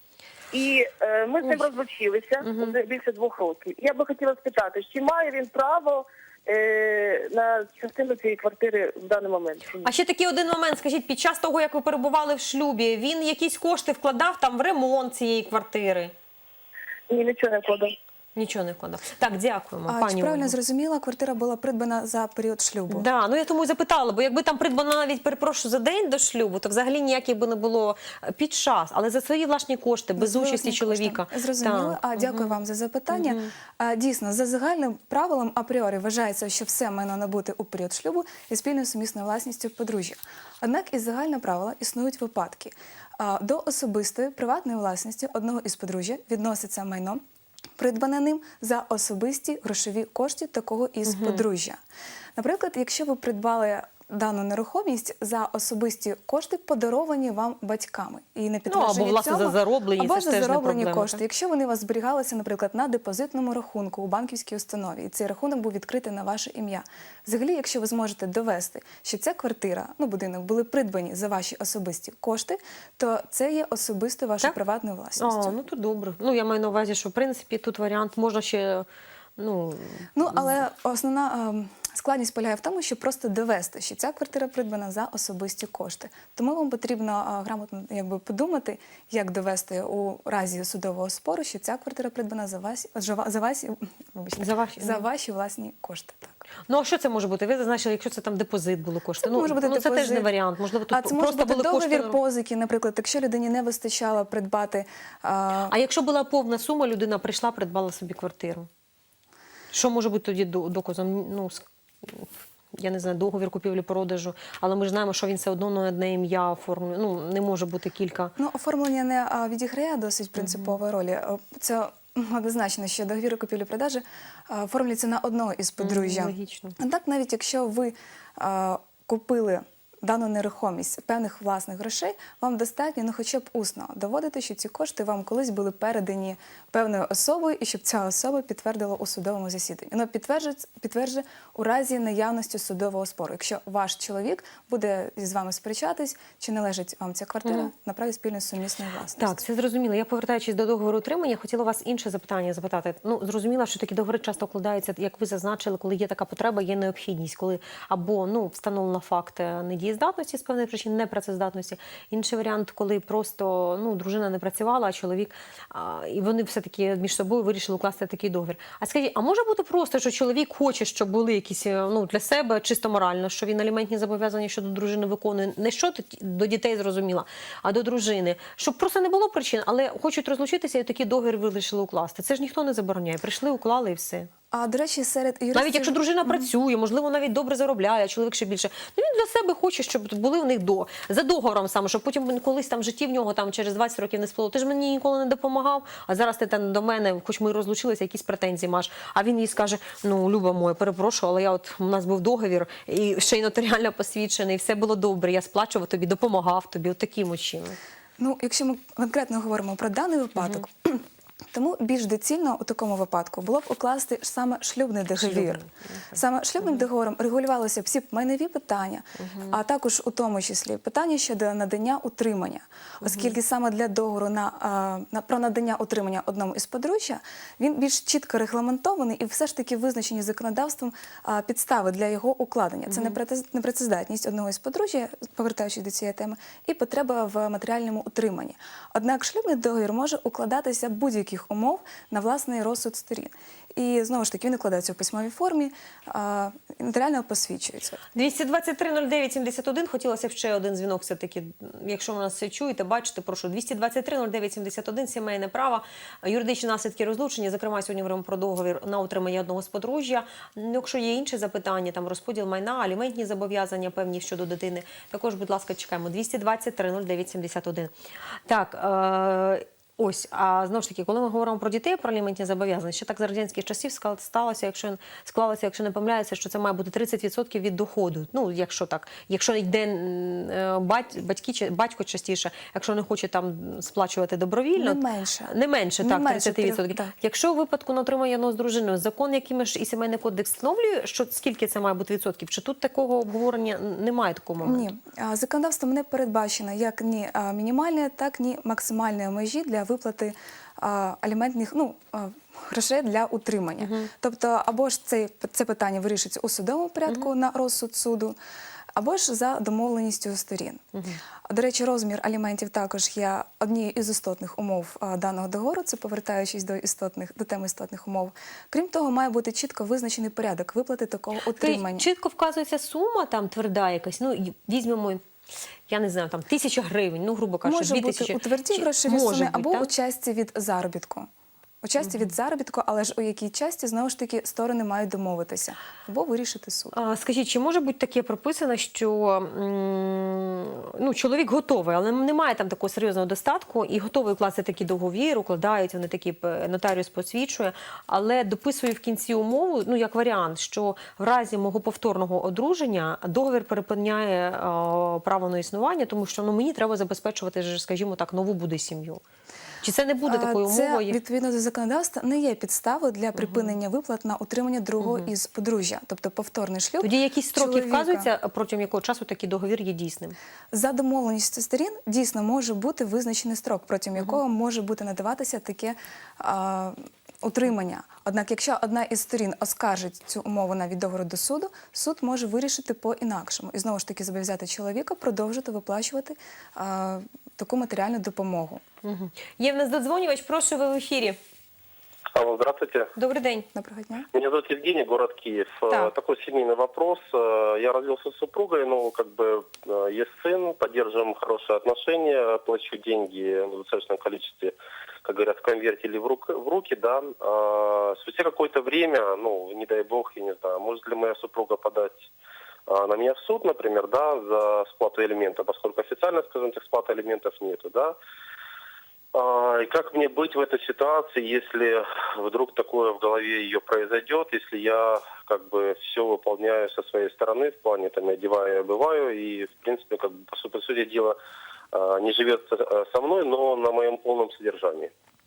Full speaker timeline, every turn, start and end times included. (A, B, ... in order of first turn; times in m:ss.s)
0:00.5-0:09.9 A
0:02.4-0:02.8 B
0:09.8-0:16.1 B
0:17.1-0:18.0 A
0:18.4-0:20.6 B
0:19.9-0:23.1 C
0:22.9-0:32.5 B
0:30.2-0:47.2 C
0:33.1-0:33.5 B
0:47.8-0:51.8 C
0:51.1-0:51.4 B
0:52.4-1:15.6 C
0:58.7-1:01.2 B
1:15.2-1:20.5 B
1:20.2-1:36.4 C
1:34.4-1:35.0 B
1:36.7-1:42.2 B
1:39.2-1:40.3 C
1:40.9-1:45.7 C
1:45.7-1:48.7 B
1:49.7-1:58.3 B
1:58.4-2:29.4 C
2:00.4-2:00.8 B
2:05.8-2:06.8 B
2:29.2-3:04.3 B
3:04.5-3:06.5 C
3:05.5-3:27.8 B
3:28.2-4:08.0 C
3:35.2-3:36.1 B
3:39.2-3:39.6 B
3:43.0-3:43.3 B
3:52.9-3:53.2 B
4:08.2-4:27.9 B
4:28.5-4:54.9 B
4:44.8-4:47.1 C
4:54.6-5:08.4 C
5:03.8-5:04.1 B
5:09.0-5:10.9 C
5:11.5-5:22.0 C
5:21.6-5:25.2 B
5:25.9-5:29.9 B
5:27.6-5:31.3 C
5:31.8-5:37.0 C
5:36.9-5:59.2 B
5:59.8-6:01.2 B
6:00.3-6:08.3 C
6:03.4-6:03.7 B
6:07.0-6:10.4 B
6:10.7-6:28.8 C
6:29.0-6:31.4 B
6:32.3-6:33.1 D
6:33.2-6:33.7 B
6:33.8-6:34.3 C
6:34.3-6:52.3 D
6:52.9-6:58.2 D
6:59.3-7:11.4 D
7:11.9-7:15.1 D